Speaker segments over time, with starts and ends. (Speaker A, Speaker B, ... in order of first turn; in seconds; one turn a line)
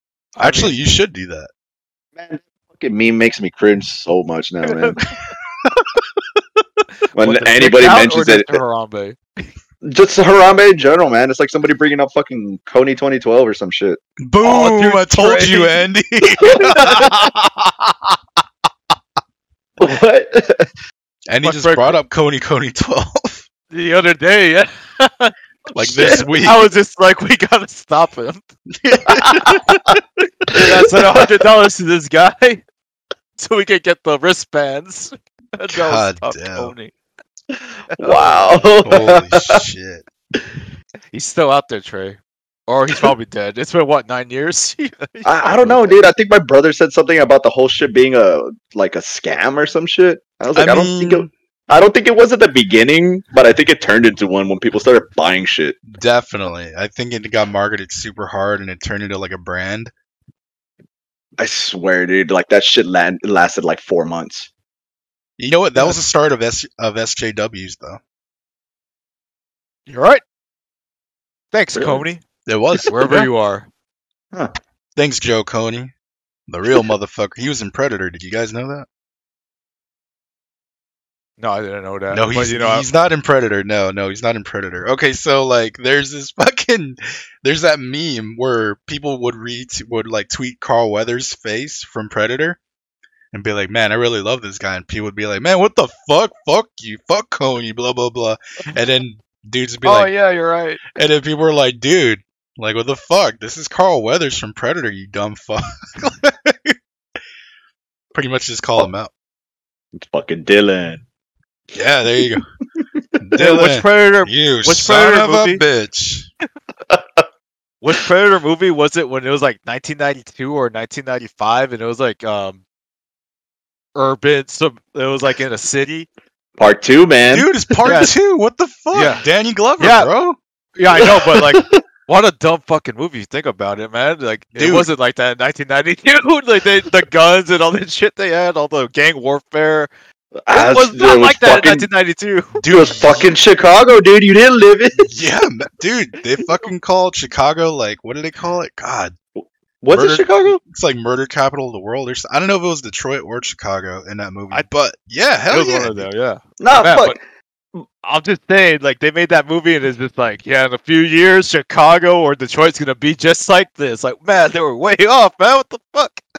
Speaker A: 0.4-0.8
Speaker B: 0.4-1.5
Speaker C: 2.2-5.0
Speaker A: 4.6-5.0
Speaker A: 7.0-9.2
Speaker C: 7.2-8.6
Speaker C: 9.8-14.0
Speaker B: 14.2-18.1
Speaker A: 14.4-15.8
Speaker C: 16.4-17.2
Speaker C: 19.8-20.7
Speaker B: 21.3-23.4
Speaker A: 21.4-22.0
Speaker A: 23.7-25.3
Speaker B: 25.7-26.7
Speaker C: 25.8-26.2
Speaker A: 26.0-28.4
Speaker B: 28.9-29.8
Speaker C: 29.1-30.0
Speaker A: 30.5-32.6
Speaker C: 30.5-31.3
Speaker A: 33.4-36.9
Speaker B: 35.7-36.7
Speaker A: 38.0-38.7
Speaker C: 38.0-39.6
Speaker B: 38.8-40.0
Speaker A: 41.1-46.1
Speaker C: 45.2-55.8
Speaker B: 50.5-51.3
Speaker B: 55.9-59.9
Speaker C: 61.4-64.5
Speaker B: 65.4-68.0
Speaker A: 69.9-70.2
Speaker A: 71.5-72.2
Speaker C: 71.8-72.0
Speaker B: 72.5-73.3
Speaker A: 72.9-73.7
Speaker B: 75.0-75.9
Speaker B: 76.5-78.9
Speaker A: 81.4-82.9
Speaker B: 82.1-92.6
Speaker B: 93.3-100.1
Speaker A: 99.8-100.8
Speaker B: 100.9-106.8
Speaker B: 108.1-109.1
Speaker C: 110.0-111.0
Speaker B: 111.7-112.4
Speaker B: 113.2-116.3
Speaker A: 113.4-115.6
Speaker A: 117.8-122.6
Speaker A: 123.9-126.1
Speaker C: 126.6-128.1
Speaker B: 127.3-130.4
Speaker A: 127.8-128.1
Speaker A: 128.9-129.2
Speaker A: 129.8-130.1
Speaker A: 130.8-139.9
Speaker C: 130.9-131.8
Speaker B: 134.6-134.9
Speaker C: 140.5-141.9
Speaker A: 140.5-142.6
Speaker B: 142.6-143.3
Speaker C: 142.7-145.1
Speaker B: 145.0-149.2
Speaker C: 149.8-150.6
Speaker B: 149.9-156.1
Speaker A: 155.5-157.2
Speaker C: 156.6-157.2
Speaker A: 158.0-166.2